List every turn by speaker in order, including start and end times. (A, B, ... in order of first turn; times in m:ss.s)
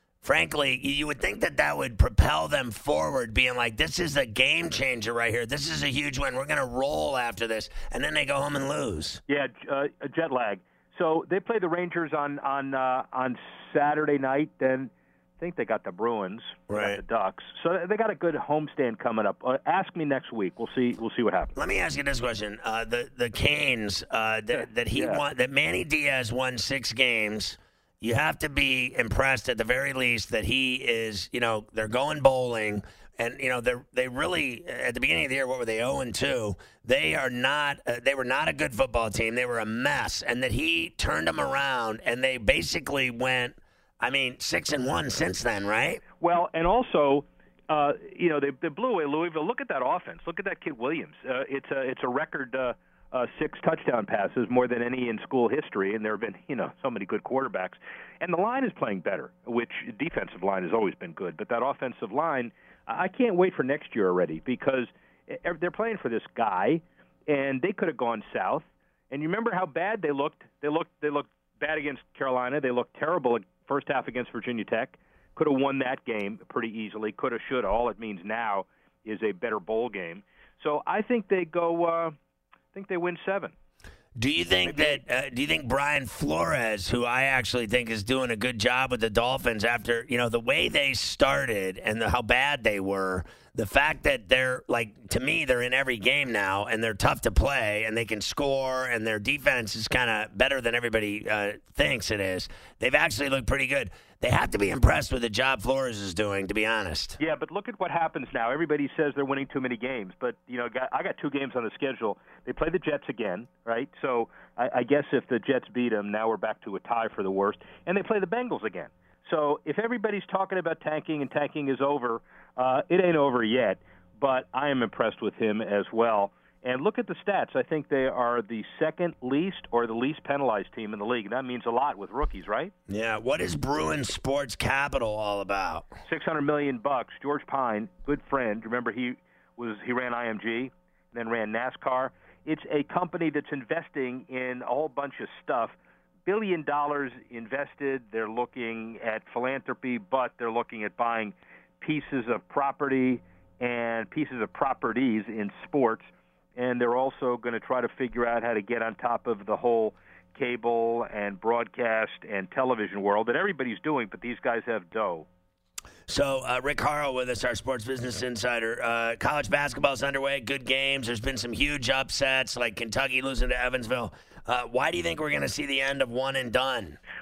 0:00.2-0:09.2 A
0:09.3-0:21.6 B
0:16.7-0:17.0 A
0:21.6-0:46.0 A
0:24.5-0:25.2 B
0:46.2-1:22.1 B
1:22.7-1:23.5 B
1:24.2-1:47.2 A
1:24.6-1:25.0 B
1:47.2-2:12.7 B
2:12.9-2:15.9 A
2:16.1-2:25.8 B
2:26.3-2:45.3 B
2:46.1-2:57.0 A